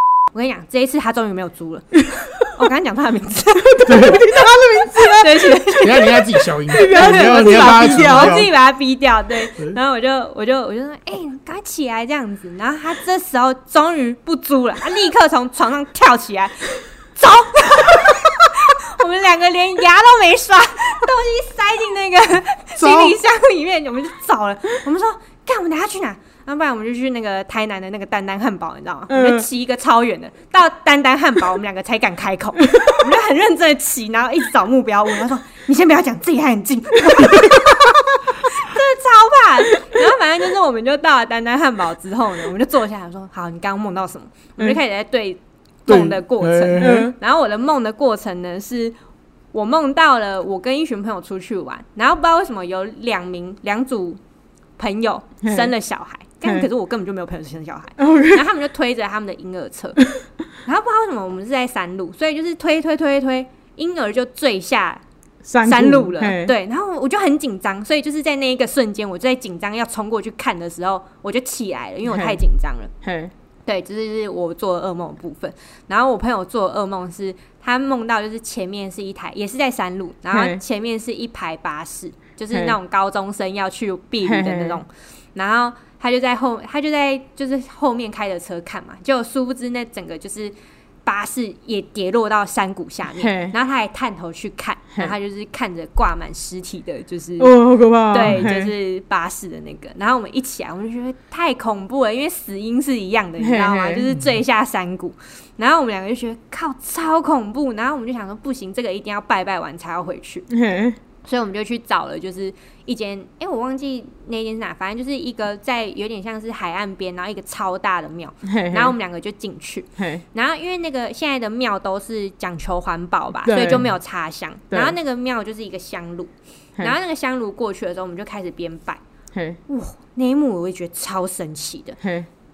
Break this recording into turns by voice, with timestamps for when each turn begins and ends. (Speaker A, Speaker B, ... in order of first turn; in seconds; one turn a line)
Speaker A: 0.3-6.2
Speaker B: 3.6-5.9
Speaker C: 3.9-4.3
Speaker C: 5.8-8.5
Speaker B: 6.7-8.5
Speaker A: 6.7-48.9
Speaker C: 22.8-23.1
Speaker B: 29.1-29.5
Speaker B: 32.7-33.0
Speaker C: 45.9-47.1
Speaker B: 46.8-47.1
Speaker A: 49.5-54.2
Speaker A: 54.8-60.0
Speaker B: 55.4-55.7
Speaker B: 58.0-58.5
Speaker A: 60.6-65.0
Speaker B: 65.4-66.5
Speaker A: 65.6-72.9
Speaker B: 72.0-72.4
Speaker B: 73.0-73.3
Speaker A: 73.7-90.5
Speaker B: 80.3-80.6
Speaker B: 84.2-84.8
Speaker A: 91.0-110.5
Speaker B: 93.2-93.5
Speaker B: 97.4-98.7
Speaker B: 103.4-104.0
Speaker B: 110.5-111.0
Speaker A: 111.2-129.0
Speaker B: 118.5-118.9
Speaker B: 120.0-120.2
Speaker B: 123.4-123.9
Speaker B: 129.3-129.6
Speaker A: 129.7-132.0
Speaker B: 132.0-132.3